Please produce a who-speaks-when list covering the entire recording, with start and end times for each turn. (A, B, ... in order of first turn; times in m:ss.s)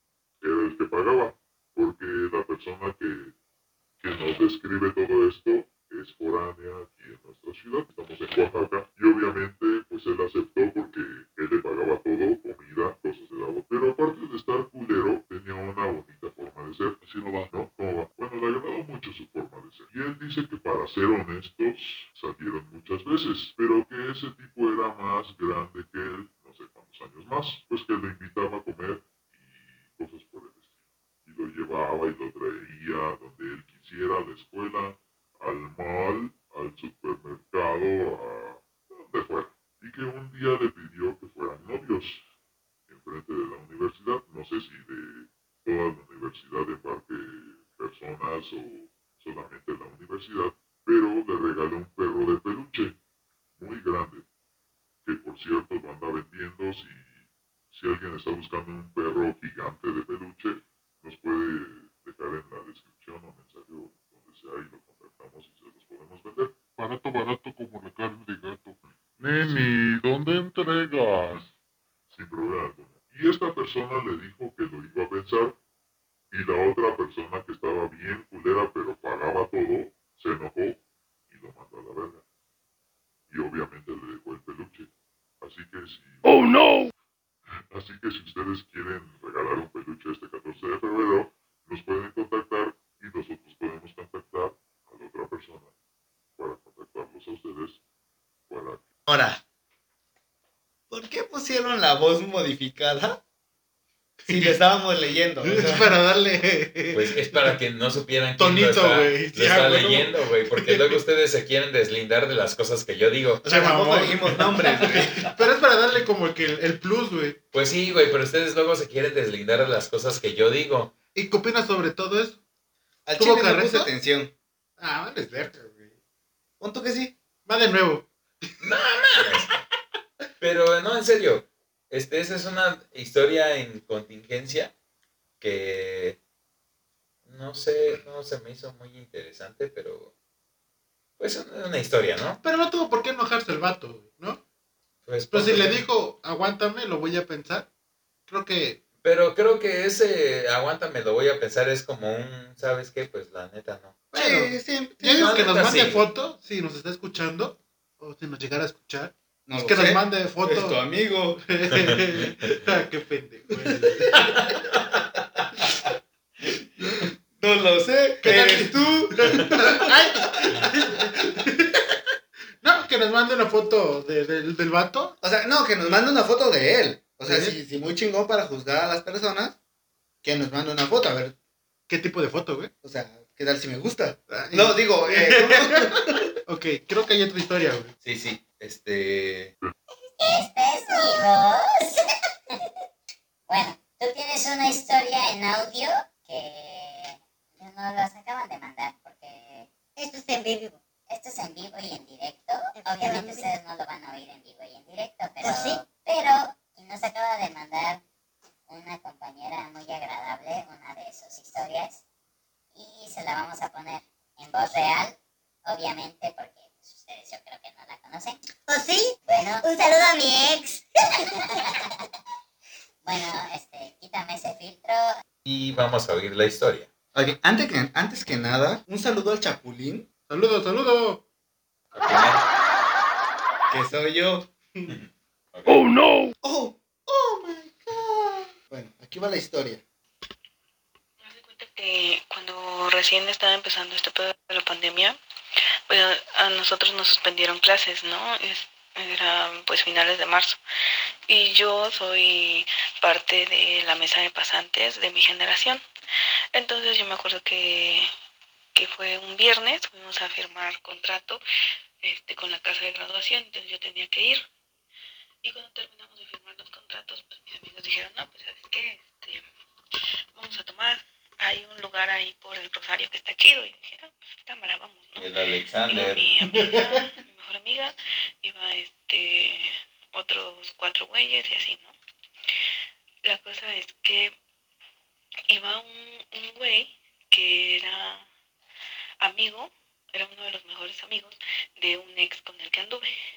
0:00.4-0:03.3 A
0:04.0-0:30.7 A
0:17.0-0:17.5 B
0:31.2-0:42.2 A
0:42.9-0:53.0 A
0:53.6-0:54.2 A
0:55.0-1:06.6 A
1:06.8-1:11.5 B
1:08.8-1:09.7 A
1:12.1-1:15.6 A
1:16.3-1:22.2 A
1:23.3-1:24.9 A
1:25.4-1:26.8 A
1:27.7-1:35.7 A
1:36.4-1:37.8 A
1:38.5-1:38.8 A
1:39.1-1:39.4 C
1:40.9-1:43.2 C
1:44.2-1:44.6 D
1:44.3-1:45.9 C
1:45.4-1:47.6 D
1:46.9-1:53.4 E
1:48.4-1:51.0 D
1:53.4-1:55.3 C
1:53.4-1:57.4 D
1:57.5-2:00.9 E
2:01.1-2:02.4 D
2:03.1-2:04.3 C
2:03.2-2:03.9 D
2:04.8-2:05.9 D
2:06.6-2:07.1 C
2:07.5-2:08.1 D
2:08.6-2:09.5 E
2:10.4-2:14.7 E
2:15.4-2:16.2 E
2:17.3-2:20.1 E
2:21.2-2:22.4 E
2:22.4-2:24.4 D
2:25.1-2:25.8 E
2:25.3-2:27.7 D
2:28.3-2:28.8 D
2:29.0-2:34.0 E
2:34.1-2:40.8 D
2:34.1-2:35.4 C
2:35.2-2:36.1 E
2:39.5-2:41.4 C
2:41.4-2:44.4 D
2:43.6-2:45.0 C
2:46.8-2:50.0 C
2:48.2-2:52.0 D
2:52.6-2:55.2 D
2:55.2-2:59.6 C
2:57.3-2:57.6 D
3:00.2-3:01.4 C
3:01.9-3:02.7 D
3:02.8-3:06.3 C
3:04.3-3:07.9 D
3:08.0-3:09.5 E
3:10.2-3:12.7 F
3:13.5-3:19.7 F
3:20.0-3:20.8 G
3:21.1-3:28.0 F
3:22.8-3:23.5 G
3:25.4-3:25.8 G
3:28.7-3:32.0 F
3:32.8-3:35.2 F
3:35.7-3:38.4 F
3:38.7-3:41.7 G
3:39.3-3:39.7 F
3:41.2-3:41.9 F
3:43.0-3:45.1 F
3:45.4-3:46.9 E
3:47.1-3:50.1 C
3:50.3-3:51.2 D
3:51.9-3:52.4 E
3:53.7-3:54.5 C
3:54.9-3:55.9 E
3:56.4-3:59.8 C
4:01.2-4:05.2 H
4:05.9-4:10.6 H
4:11.3-4:15.8 H
4:16.5-4:18.1 H
4:18.8-4:21.4 H
4:22.0-4:24.4 H
4:25.4-4:29.4 H
4:30.4-4:35.3 H
4:35.2-4:36.3 E
4:35.9-4:41.9 H
4:36.5-4:37.0 D
4:43.2-4:44.3 H
4:45.5-4:48.3 H
4:49.2-4:53.1 H